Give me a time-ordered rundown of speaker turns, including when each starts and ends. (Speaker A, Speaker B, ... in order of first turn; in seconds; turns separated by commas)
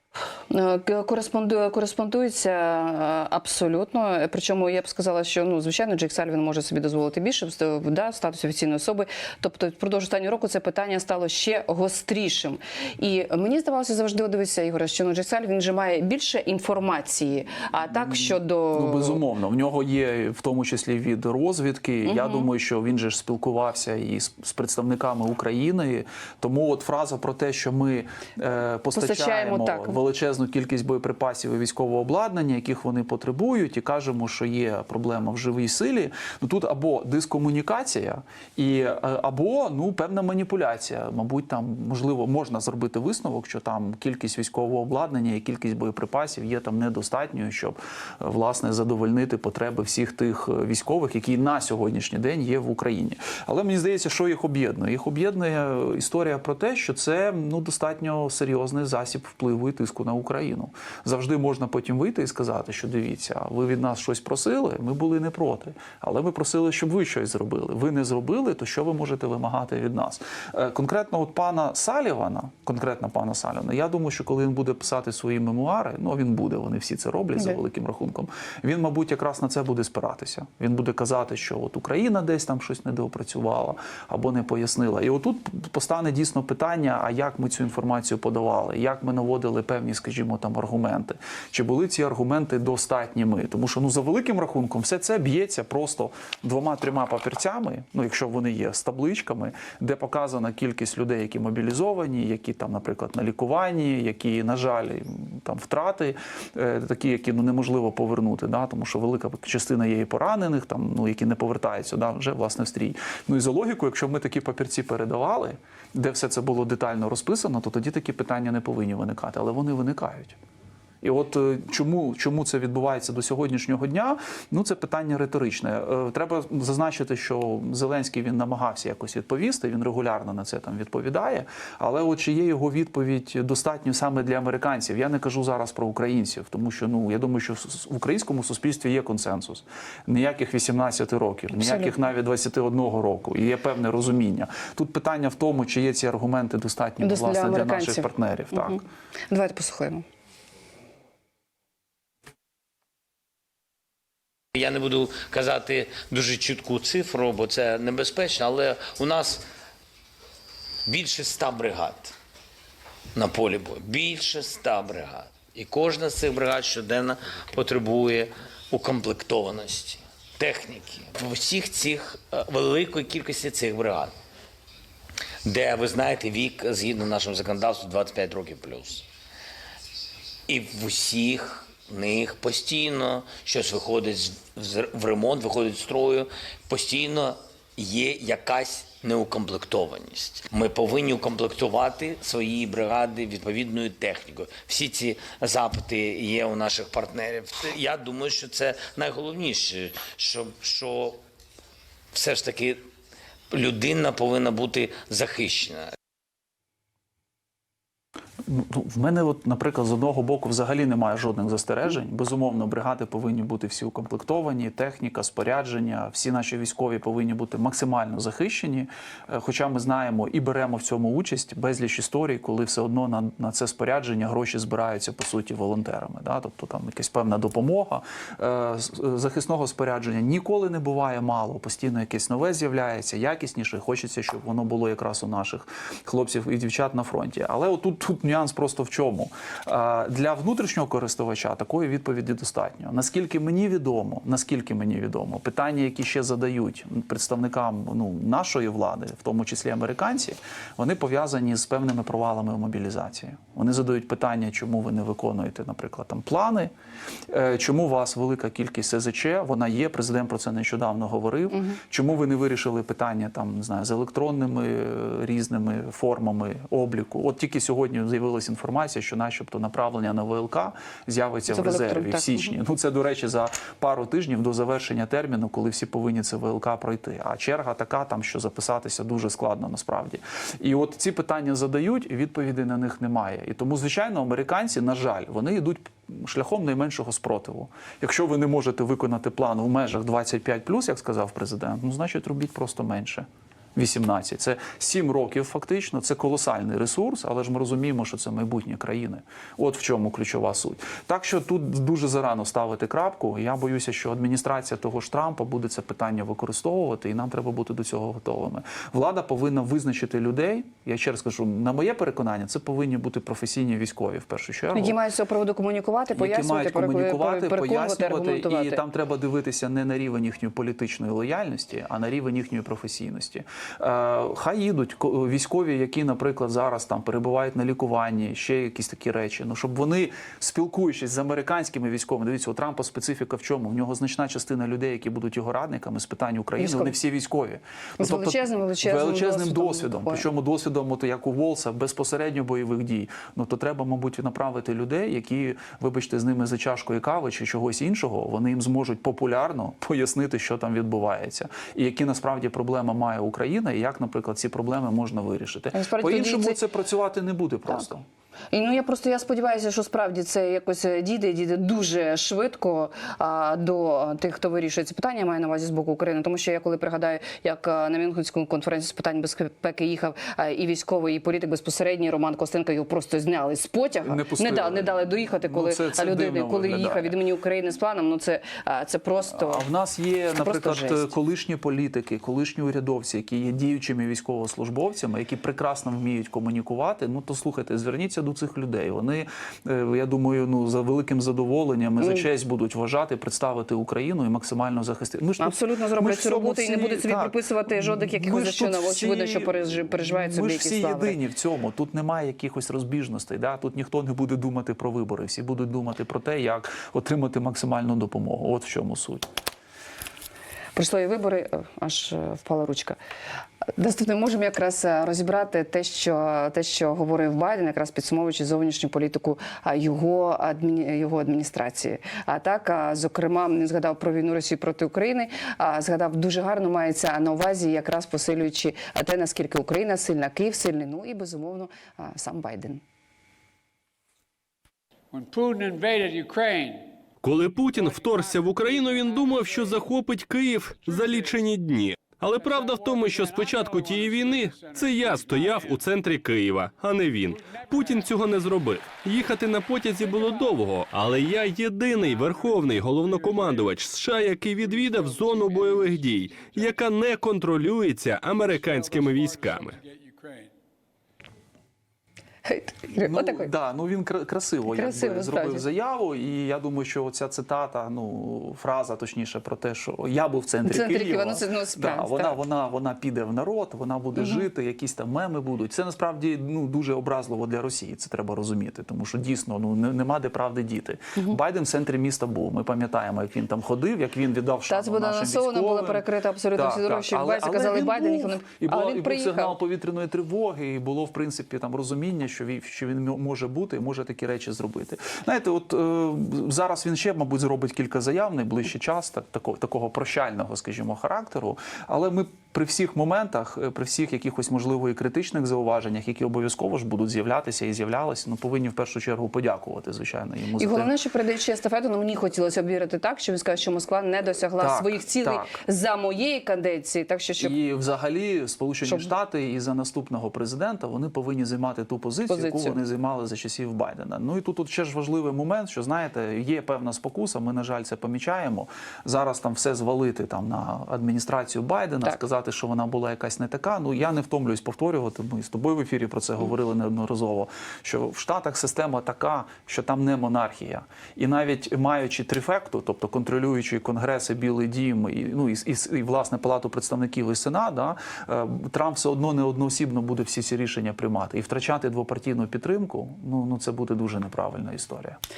Speaker A: 0.5-19.2, Speaker B: 17.9-120.4, Speaker A: 22.0-22.5, Speaker A: 28.9-30.0, Speaker B: 121.0-148.8, Speaker A: 141.5-141.9, Speaker A: 147.0-150.0, Speaker C: 154.5-159.4, Speaker C: 160.8-162.1, Speaker C: 163.1-174.1, Speaker C: 175.4-179.0, Speaker C: 180.5-201.2, Speaker C: 202.1-202.8, Speaker C: 203.5-205.9, Speaker B: 208.4-256.7, Speaker B: 257.3-315.0, Speaker A: 261.5-261.8, Speaker A: 271.5-272.5, Speaker A: 314.7-318.8, Speaker B: 316.1-358.1, Speaker A: 336.6-336.9, Speaker A: 338.0-340.2, Speaker A: 355.7-356.6, Speaker A: 358.5-379.6, Speaker B: 374.0-377.2, Speaker B: 379.3-409.2, Speaker A: 380.4-381.1, Speaker A: 392.0-392.2, Speaker A: 395.4-401.2, Speaker A: 410.8-413.0, Speaker A: 413.8-432.8, Speaker D: 435.1-436.9, Speaker E: 437.2-459.8, Speaker D: 437.6-440.0, Speaker D: 440.7-441.5, Speaker D: 442.2-446.0, Speaker D: 447.2-449.4, Speaker D: 449.9-451.2, Speaker D: 451.9-456.9, Speaker D: 458.3-460.5, Speaker A: 462.4-463.5, Speaker B: 463.0-510.9, Speaker A: 464.7-465.6, Speaker A: 470.6-472.4, Speaker A: 474.1-474.4, Speaker A: 484.7-489.6, Speaker A: 510.6-517.5, Speaker B: 514.6-515.6, Speaker B: 517.4-555.2, Speaker A: 518.8-519.1, Speaker A: 522.3-522.8